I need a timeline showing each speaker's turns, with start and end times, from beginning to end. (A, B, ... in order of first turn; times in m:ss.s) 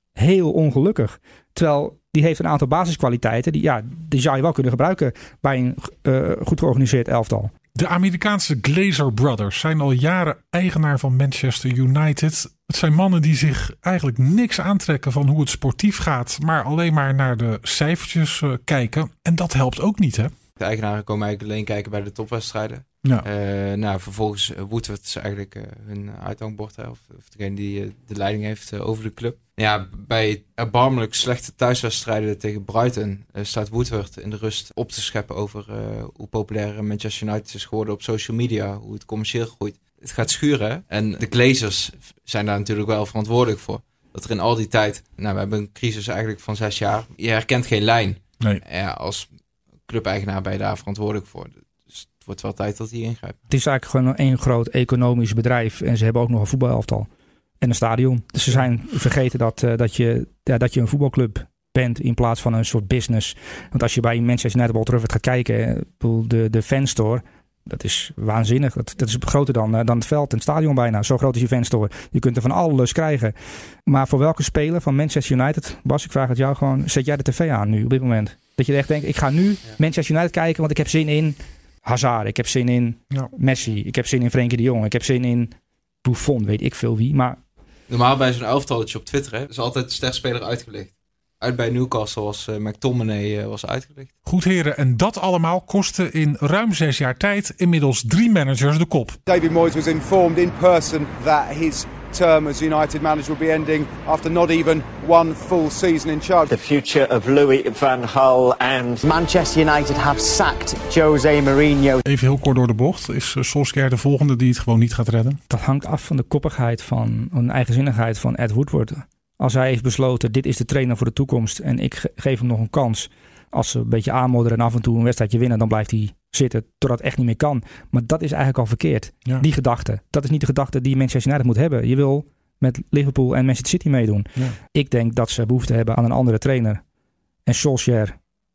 0:00.2-0:07.5 A
0:07.8-0:20.3 B
0:20.6-0:49.3 C
0:49.9-0:53.4 C
0:53.5-0:57.1 A
0:57.6-1:13.3 A
1:13.9-1:27.4 A
1:27.9-1:34.1 C
1:34.3-1:39.2 B
1:39.3-1:46.5 D
1:46.5-1:49.1 E
1:49.0-1:52.0 F
1:52.0-1:55.4 B
1:55.5-2:16.8 A
2:17.5-2:18.2 A